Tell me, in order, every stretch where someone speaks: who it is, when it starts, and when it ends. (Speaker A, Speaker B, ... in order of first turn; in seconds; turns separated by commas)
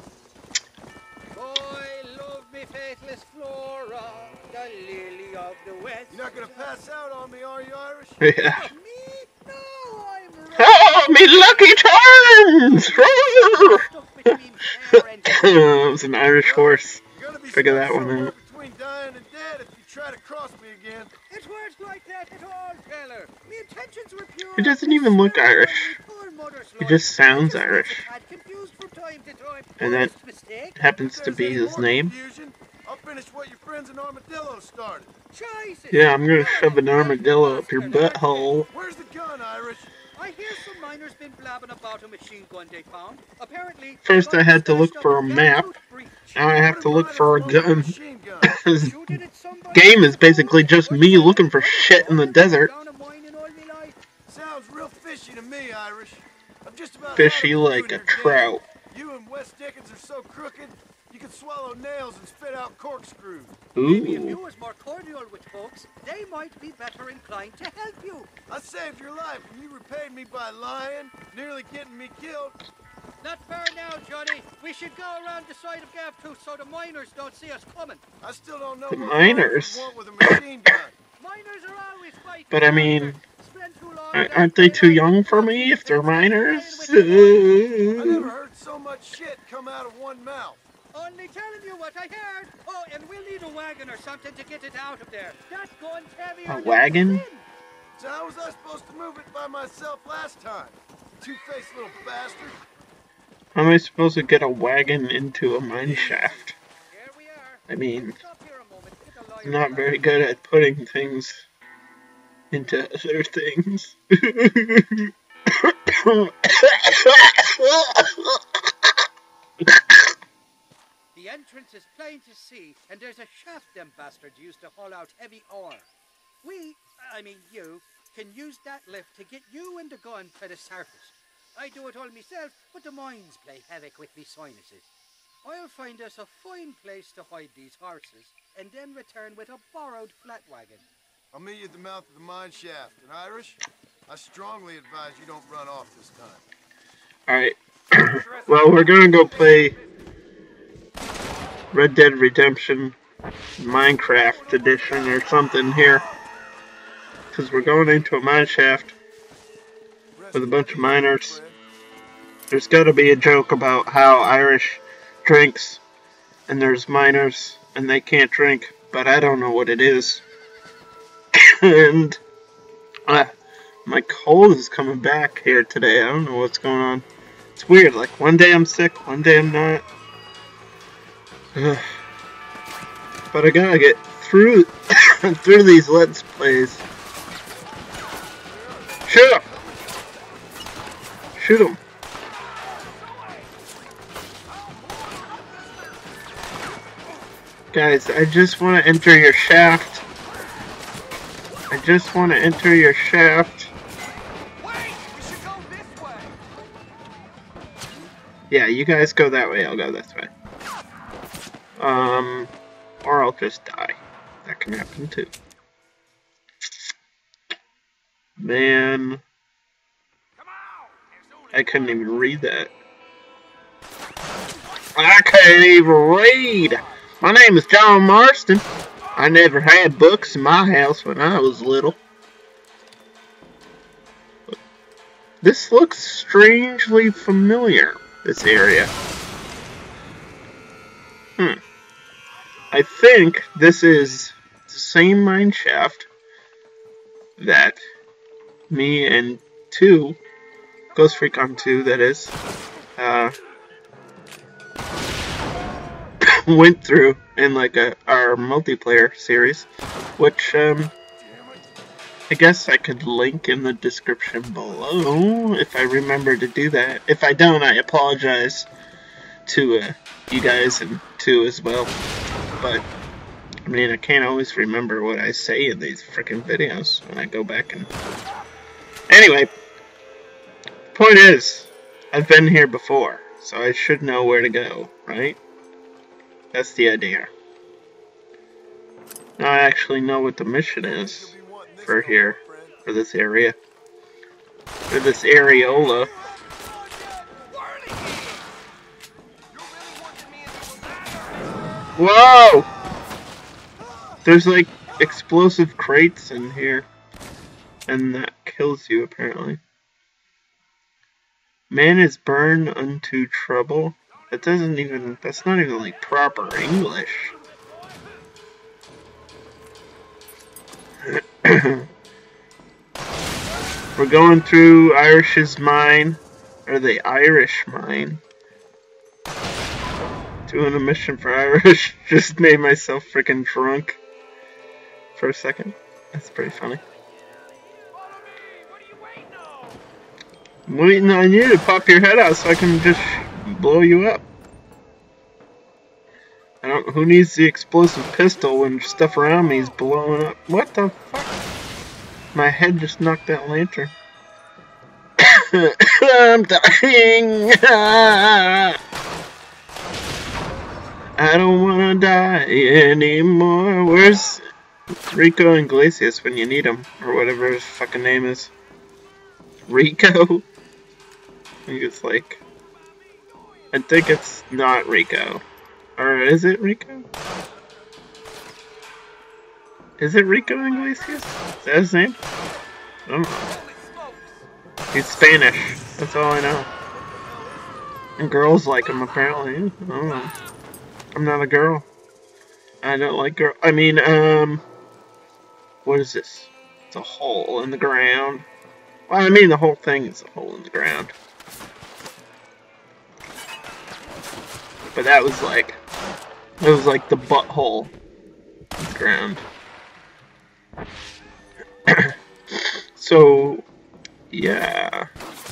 Speaker A: 1.3-6.8, Speaker B: 6.1-8.2, Speaker C: 8.2-8.7, Speaker A: 8.4-11.9, Speaker C: 10.6-13.8, Speaker A: 12.7-15.8, Speaker C: 15.3-17.0, Speaker B: 16.4-21.1, Speaker C: 17.5-18.3, Speaker A: 21.3-30.8, Speaker C: 24.6-26.0, Speaker C: 26.8-28.1, Speaker C: 29.8-30.1, Speaker C: 30.8-32.1, Speaker B: 31.0-35.1, Speaker A: 35.3-38.6, Speaker C: 35.9-38.7, Speaker B: 38.7-40.0, Speaker A: 40.1-46.4, Speaker C: 44.0-45.7, Speaker C: 46.4-49.2, Speaker B: 46.6-48.5, Speaker A: 48.8-54.0, Speaker C: 49.7-52.7, Speaker B: 54.3-63.6, Speaker C: 57.2-58.6, Speaker C: 63.8-64.4, Speaker A: 63.8-68.3, Speaker B: 68.5-72.6, Speaker A: 73.2-78.0, Speaker B: 78.2-81.0, Speaker C: 78.9-79.9, Speaker A: 81.2-87.8, Speaker C: 82.5-83.2, Speaker C: 84.1-88.3, Speaker B: 87.9-90.6, Speaker A: 90.9-97.5, Speaker C: 96.5-97.3, Speaker B: 98.0-102.6, Speaker C: 103.5-106.5, Speaker A: 106.1-110.3, Speaker C: 107.7-108.2, Speaker C: 109.4-111.5, Speaker C: 112.5-118.9, Speaker C: 119.6-120.0, Speaker A: 121.1-125.9, Speaker A: 126.4-134.9, Speaker A: 135.4-140.8, Speaker B: 141.3-146.4, Speaker C: 147.3-149.8, Speaker B: 148.1-149.9, Speaker C: 151.7-153.0, Speaker C: 153.6-156.1, Speaker B: 154.2-155.3, Speaker C: 157.3-159.0, Speaker B: 160.2-161.6, Speaker C: 160.3-161.4, Speaker C: 162.5-165.8, Speaker C: 166.5-170.2, Speaker C: 171.4-172.2, Speaker C: 173.9-177.1, Speaker C: 177.6-179.8, Speaker C: 181.6-181.9, Speaker C: 183.3-186.8, Speaker B: 188.5-190.1, Speaker C: 189.1-189.4, Speaker C: 191.4-191.8, Speaker B: 194.6-195.9, Speaker C: 197.7-200.0, Speaker C: 201.7-203.7, Speaker B: 204.6-206.4, Speaker C: 208.5-210.3, Speaker C: 211.8-215.3, Speaker C: 218.4-219.2, Speaker C: 221.5-222.7, Speaker C: 224.9-228.6, Speaker C: 229.2-232.0, Speaker C: 235.4-238.9, Speaker C: 242.7-246.1, Speaker C: 247.4-247.8, Speaker C: 248.7-250.2, Speaker C: 250.9-252.3, Speaker C: 253.0-253.4, Speaker C: 256.2-260.9, Speaker B: 261.2-261.8, Speaker C: 262.3-268.7, Speaker C: 269.5-271.9, Speaker C: 272.6-272.9, Speaker C: 273.7-277.9, Speaker C: 279.1-279.5, Speaker C: 280.9-285.4, Speaker C: 286.5-287.3, Speaker C: 289.4-291.3, Speaker B: 290.8-292.8, Speaker C: 291.9-293.6, Speaker C: 294.9-296.1, Speaker B: 295.7-298.4, Speaker B: 299.5-301.6, Speaker C: 302.0-302.7, Speaker B: 302.7-303.1, Speaker B: 303.8-304.2, Speaker C: 304.2-306.9, Speaker C: 307.9-309.6, Speaker C: 311.7-317.4, Speaker C: 321.1-321.9, Speaker C: 324.0-328.2, Speaker C: 330.5-334.0, Speaker C: 335.1-336.8, Speaker C: 340.7-344.2, Speaker C: 346.6-351.4, Speaker C: 352.3-353.9, Speaker C: 355.2-358.8, Speaker C: 361.2-364.4, Speaker C: 365.1-368.5, Speaker C: 369.7-370.5, Speaker C: 371.7-372.4, Speaker C: 373.7-375.4, Speaker C: 376.0-377.1, Speaker C: 380.0-382.2, Speaker C: 383.1-383.6, Speaker C: 384.9-386.7, Speaker B: 386.8-387.8, Speaker C: 388.2-390.3, Speaker C: 391.1-391.9, Speaker C: 392.8-394.6, Speaker C: 395.9-398.5, Speaker C: 399.1-401.1, Speaker C: 404.9-405.8, Speaker C: 406.6-407.9, Speaker C: 408.8-409.4, Speaker C: 411.9-412.1, Speaker C: 413.0-413.7, Speaker C: 414.3-415.1